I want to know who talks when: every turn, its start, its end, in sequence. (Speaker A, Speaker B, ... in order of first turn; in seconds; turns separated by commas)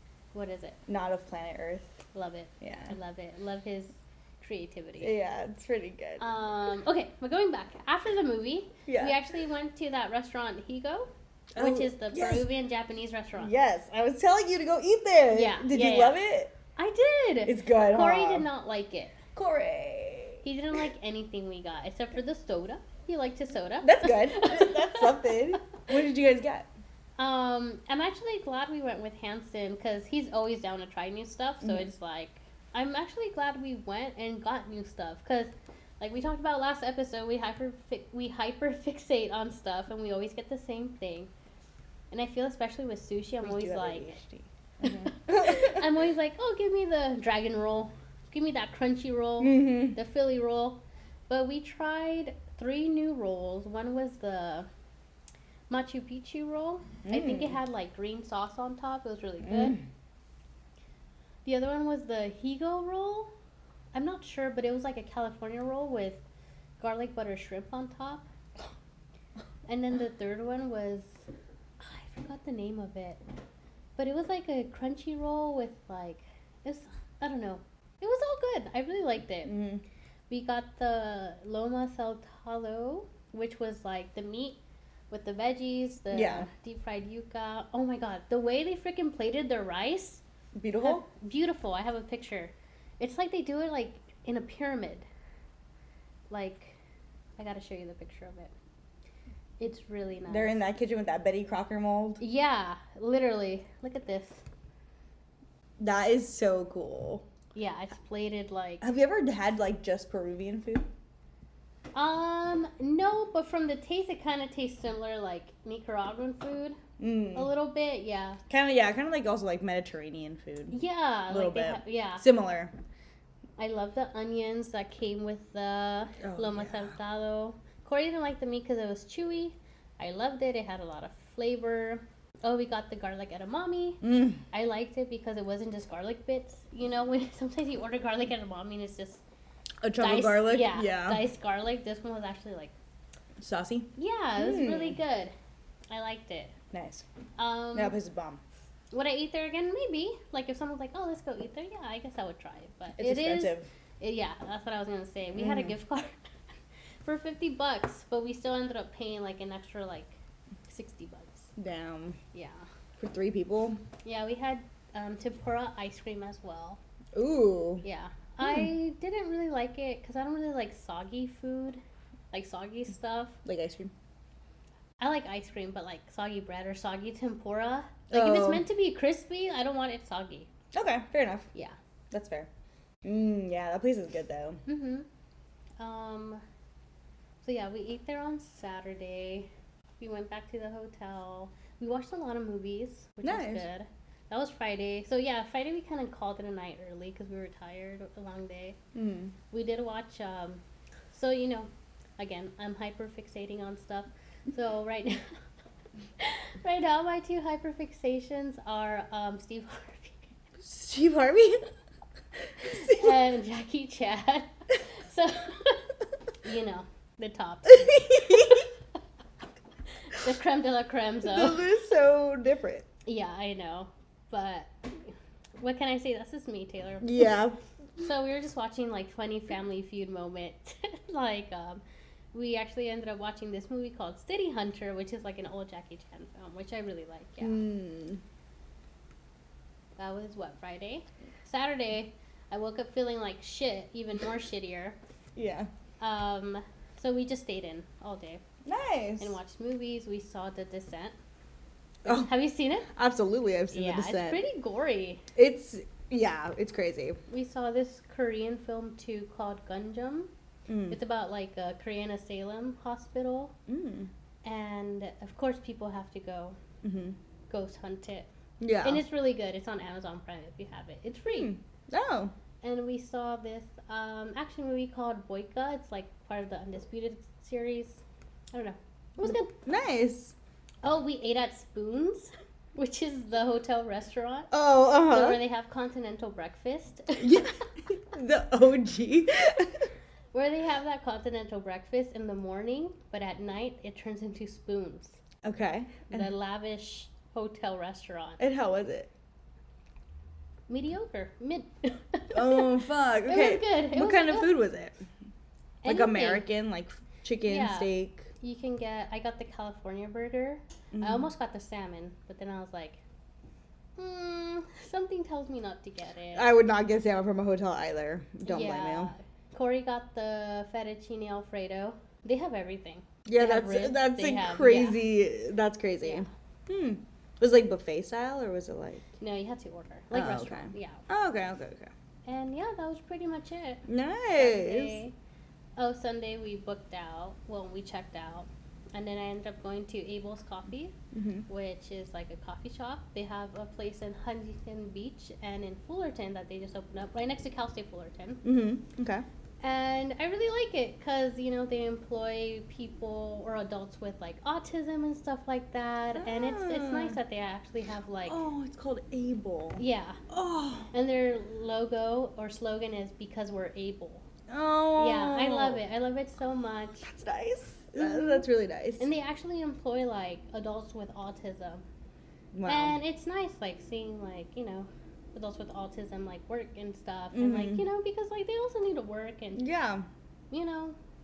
Speaker A: 0.3-0.8, Speaker B: 0.9-1.9, Speaker A: 2.1-5.1, Speaker B: 2.6-2.9, Speaker B: 5.0-6.2, Speaker A: 6.2-13.5, Speaker B: 8.9-9.2, Speaker B: 11.5-12.5, Speaker B: 13.4-16.5, Speaker A: 15.3-16.2, Speaker A: 16.8-19.2, Speaker B: 17.4-18.5, Speaker B: 19.3-20.4, Speaker A: 20.4-25.2, Speaker B: 23.8-26.7, Speaker A: 27.2-41.3, Speaker B: 31.6-31.9, Speaker A: 42.1-44.1, Speaker B: 43.4-45.9, Speaker A: 44.8-54.7, Speaker B: 49.4-50.0, Speaker A: 55.7-59.8, Speaker B: 57.0-57.6, Speaker B: 59.4-59.8, Speaker A: 61.4-63.3, Speaker A: 63.9-66.2, Speaker A: 66.8-68.2, Speaker A: 69.7-71.2, Speaker A: 71.8-73.2, Speaker A: 74.0-79.5, Speaker B: 79.5-79.8, Speaker A: 80.3-84.6, Speaker A: 85.1-90.2, Speaker B: 86.1-86.5, Speaker B: 90.5-91.0, Speaker A: 90.8-95.0, Speaker A: 96.3-96.8, Speaker A: 97.4-98.5, Speaker A: 99.6-100.6, Speaker B: 100.3-102.2, Speaker A: 102.2-104.4, Speaker B: 105.8-107.2, Speaker A: 107.5-108.8, Speaker B: 108.8-110.9, Speaker A: 111.9-116.8, Speaker B: 117.0-117.5, Speaker A: 117.3-118.4, Speaker B: 118.5-120.8, Speaker A: 120.7-122.2, Speaker B: 121.3-122.7, Speaker A: 123.6-139.2, Speaker B: 126.2-126.9, Speaker B: 134.0-134.4, Speaker B: 139.8-141.2, Speaker A: 140.0-142.7, Speaker B: 143.4-145.0, Speaker A: 143.9-145.3, Speaker A: 145.9-146.5, Speaker B: 146.7-147.0, Speaker A: 147.4-147.9, Speaker B: 147.7-148.4, Speaker A: 148.9-156.3, Speaker B: 153.0-153.7, Speaker B: 155.3-155.7, Speaker A: 157.0-160.2, Speaker A: 160.7-161.5, Speaker B: 161.6-162.2, Speaker A: 162.3-162.7, Speaker B: 163.0-163.8, Speaker A: 164.0-166.8, Speaker B: 167.1-167.8, Speaker A: 167.8-171.8, Speaker B: 168.4-168.7, Speaker A: 172.3-173.4, Speaker B: 173.4-173.9, Speaker A: 175.0-180.5, Speaker B: 178.1-178.6, Speaker B: 180.7-181.5, Speaker B: 182.1-182.5, Speaker B: 183.0-184.6, Speaker A: 184.7-185.1, Speaker A: 185.8-186.4, Speaker A: 187.4-189.5, Speaker A: 190.0-198.8, Speaker B: 193.2-193.7, Speaker B: 198.9-199.3, Speaker A: 199.5-200.6, Speaker A: 201.1-205.3, Speaker A: 206.2-210.3, Speaker B: 210.6-211.7, Speaker B: 212.6-213.1, Speaker A: 212.6-215.9, Speaker A: 216.4-218.7, Speaker B: 217.7-218.7, Speaker A: 220.0-221.6, Speaker B: 221.2-222.8, Speaker A: 223.0-227.3, Speaker B: 227.0-227.6, Speaker A: 228.0-231.8, Speaker A: 232.3-237.6, Speaker B: 237.4-238.2, Speaker A: 240.0-245.0, Speaker B: 245.3-245.7, Speaker A: 246.0-248.4, Speaker B: 248.6-249.3, Speaker A: 249.2-251.2, Speaker B: 252.0-252.3, Speaker A: 252.1-252.9, Speaker B: 252.8-254.4, Speaker A: 253.7-255.2, Speaker B: 255.3-257.2, Speaker A: 257.3-260.3, Speaker B: 260.7-261.0, Speaker A: 260.9-263.5, Speaker B: 263.7-264.1, Speaker A: 264.4-266.6, Speaker B: 266.8-267.2, Speaker A: 267.5-268.3, Speaker B: 268.6-269.0, Speaker A: 268.8-271.5, Speaker B: 271.4-272.3, Speaker A: 272.6-278.0, Speaker A: 278.5-279.5, Speaker B: 279.2-280.3, Speaker A: 280.8-284.5, Speaker B: 284.5-285.4, Speaker A: 285.1-287.5, Speaker B: 287.2-289.9, Speaker A: 290.3-295.2, Speaker B: 295.4-296.3, Speaker A: 296.1-298.4, Speaker B: 298.4-299.1, Speaker A: 300.7-304.6, Speaker B: 302.3-305.0, Speaker A: 305.8-306.5, Speaker B: 305.8-308.3, Speaker A: 307.4-313.0, Speaker B: 310.9-311.3, Speaker A: 314.0-316.5, Speaker B: 316.3-319.1, Speaker A: 318.4-325.0, Speaker B: 323.2-329.1, Speaker A: 326.0-326.3, Speaker A: 329.2-331.1, Speaker B: 330.1-331.9, Speaker A: 332.2-335.1, Speaker B: 333.9-335.0, Speaker A: 335.8-340.9, Speaker B: 341.1-341.4, Speaker A: 341.5-348.4, Speaker B: 348.4-349.2, Speaker A: 349.6-358.4, Speaker B: 356.1-357.2, Speaker B: 358.3-360.9, Speaker A: 359.8-360.2, Speaker A: 360.9-364.2, Speaker B: 364.5-365.8, Speaker A: 364.9-367.1, Speaker B: 367.0-369.1, Speaker A: 367.9-368.4, Speaker A: 369.0-371.8, Speaker B: 372.5-373.0, Speaker A: 372.6-379.6, Speaker B: 377.3-377.9, Speaker B: 379.6-380.1, Speaker A: 380.5-380.9